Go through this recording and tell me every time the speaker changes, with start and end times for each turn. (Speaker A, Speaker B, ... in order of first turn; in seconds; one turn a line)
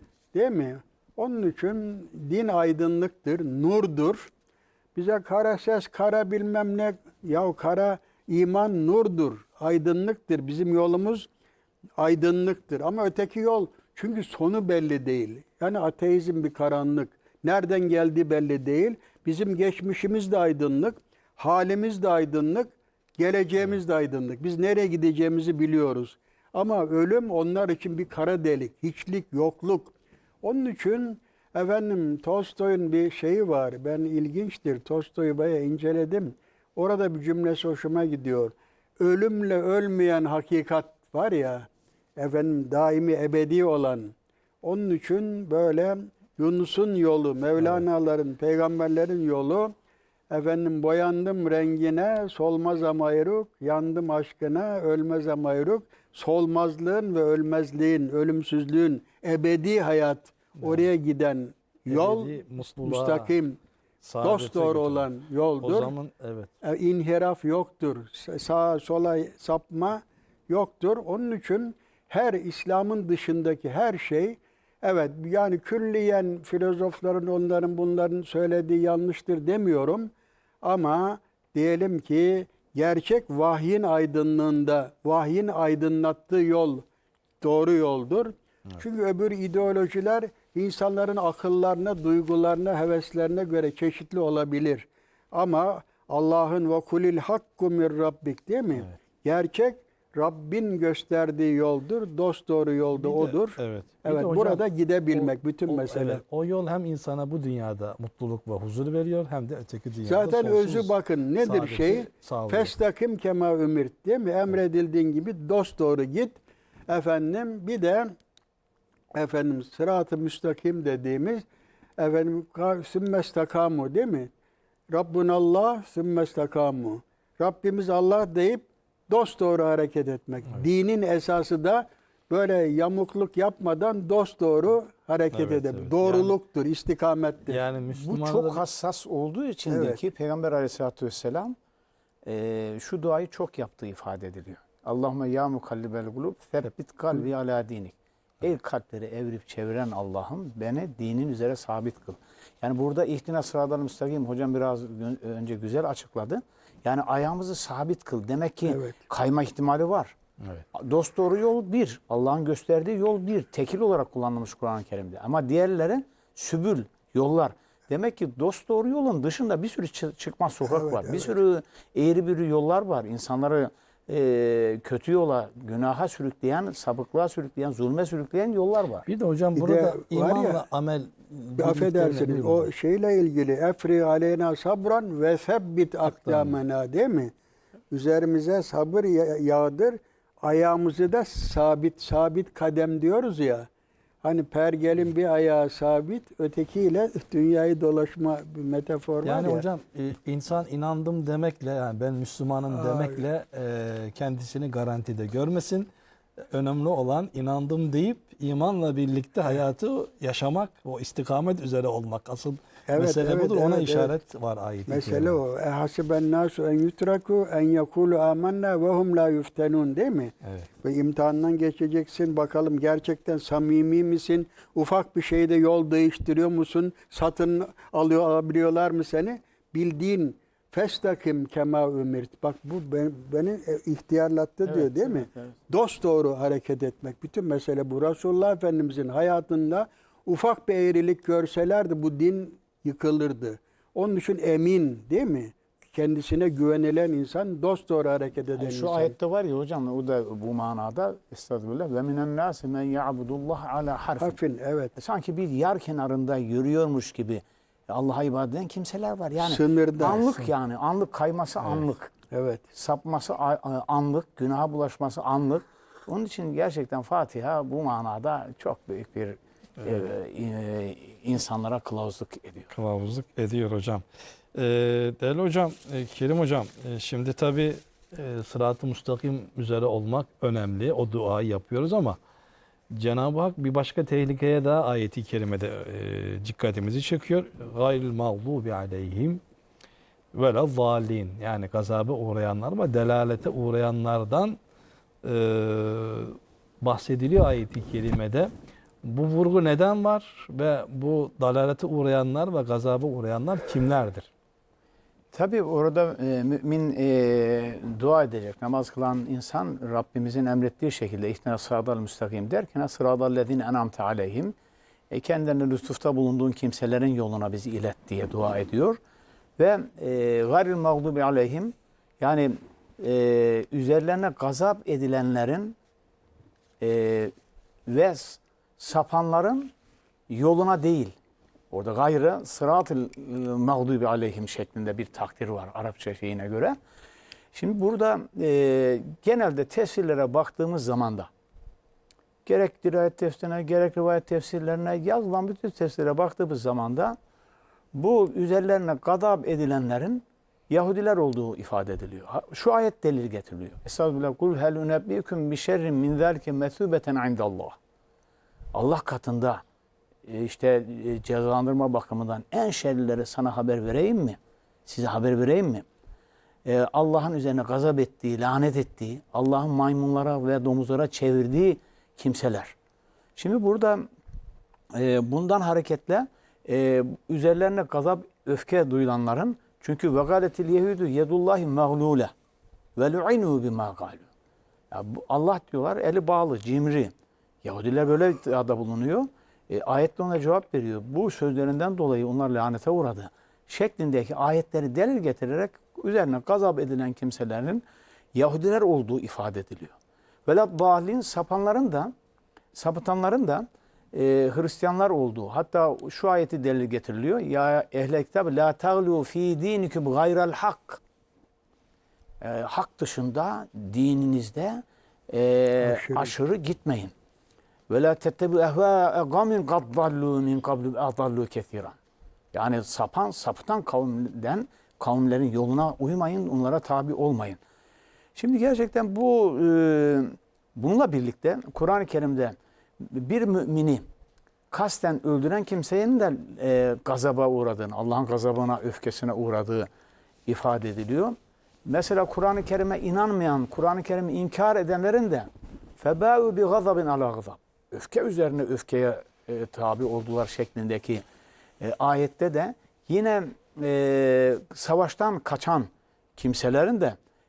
Speaker A: 0.3-4.3
Speaker A: 5.0-11.3
Speaker A: 12.0-49.7
Speaker B: 47.6-47.8
Speaker A: 50.3-63.6
Speaker B: 60.6-60.9
Speaker B: 61.9-63.3
Speaker B: 64.0-65.1
Speaker A: 64.2-65.9
Speaker B: 65.6-66.5
Speaker A: 66.6-80.1
Speaker A: 80.6-86.8
Speaker A: 87.4-106.2
Speaker B: 102.9-112.7
Speaker A: 110.0-118.1
Speaker A: 119.1-121.5
Speaker A: 122.0-124.3
Speaker A: 124.9-137.7
Speaker B: 135.3-136.4
Speaker B: 137.5-138.6
Speaker C: 137.9-141.6
Speaker A: 139.7-140.0
Speaker C: 142.2-160.2
Speaker A: 158.7-159.1
Speaker C: 160.7-179.1
Speaker A: 170.6-171.4
Speaker B: 179.1-182.7
Speaker A: 179.6-180.7
Speaker A: 181.6-187.3
Speaker B: 186.1-186.6
Speaker A: 187.9-193.7
Speaker A: 194.2-199.7
Speaker B: 199.2-205.9
Speaker A: 202.7-203.2
Speaker B: 206.5-215.4
Speaker A: 212.9-214.2
Speaker A: 214.9-249.2
Speaker C: 234.7-235.6
Speaker C: 248.5-254.4
Speaker A: 254.2-254.9
Speaker C: 255.0-262.1
Speaker A: 259.4-260.3
Speaker A: 262.3-262.6
Speaker C: 262.7-272.7
Speaker B: 272.7-282.2
Speaker B: 282.9-289.4
Speaker B: 290.3-294.6
Speaker B: 295.2-298.5
Speaker B: 299.0-304.3
Speaker C: 305.3-314.6
Speaker C: 315.1-319.0
Speaker C: 319.6-325.8
Speaker C: 326.8-327.3
Speaker C: 327.9-329.7
Speaker C: 330.3-331.1
Speaker C: 331.7-336.8
Speaker C: 337.5-341.3
Speaker C: 342.5-347.2
Speaker C: 347.9-357.8
Speaker C: 358.7-359.6
Speaker C: 360.3-365.9
Speaker C: 366.6-372.8
Speaker C: 373.4-374.0
Speaker C: 375.0-382.3
Speaker C: 383.0-384.3
Speaker C: 384.9-397.8
Speaker C: 398.4-402.1
Speaker C: 402.7-411.0
Speaker C: 412.4-417.1
Speaker A: 415.8-416.4
Speaker C: 417.9-422.0
Speaker C: 422.5-427.6
Speaker C: 428.4-434.1
Speaker C: 434.7-439.9
Speaker C: 440.5-445.5
Speaker C: 446.0-451.2
Speaker C: 451.8-457.2